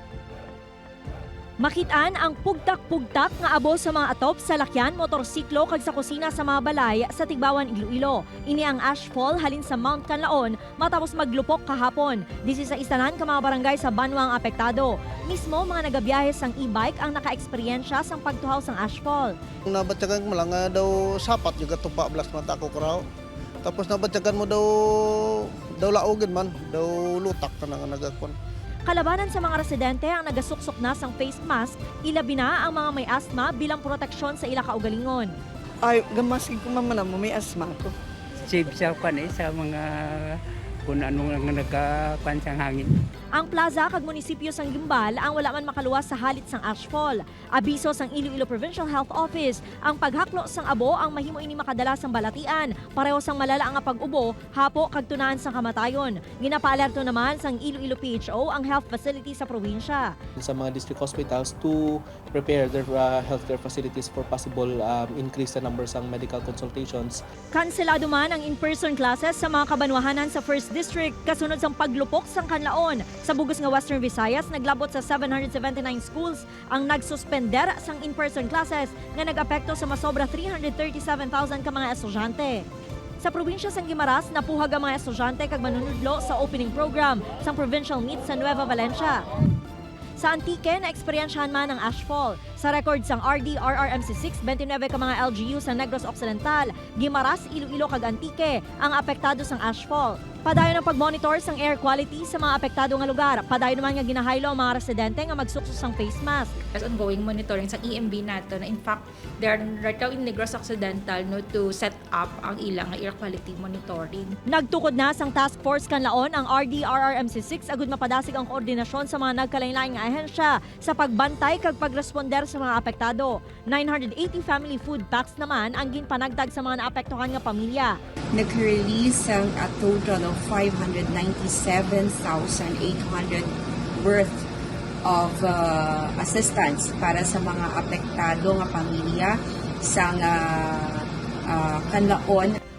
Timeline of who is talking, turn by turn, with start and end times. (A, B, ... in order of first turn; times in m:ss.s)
0:01.6-0:19.3 A
0:19.7-0:23.0 B
0:23.6-0:28.3 B
0:28.9-0:35.3 A
0:35.8-0:37.9 C
0:38.4-0:42.9 D
0:43.4-1:00.1 A
1:00.4-1:07.2 E
1:07.5-1:22.7 A
1:23.2-1:29.2 A
1:30.2-1:46.5 A
1:46.7-1:54.3 F
1:54.5-2:08.0 A
2:08.3-2:14.4 G
2:15.0-2:22.6 G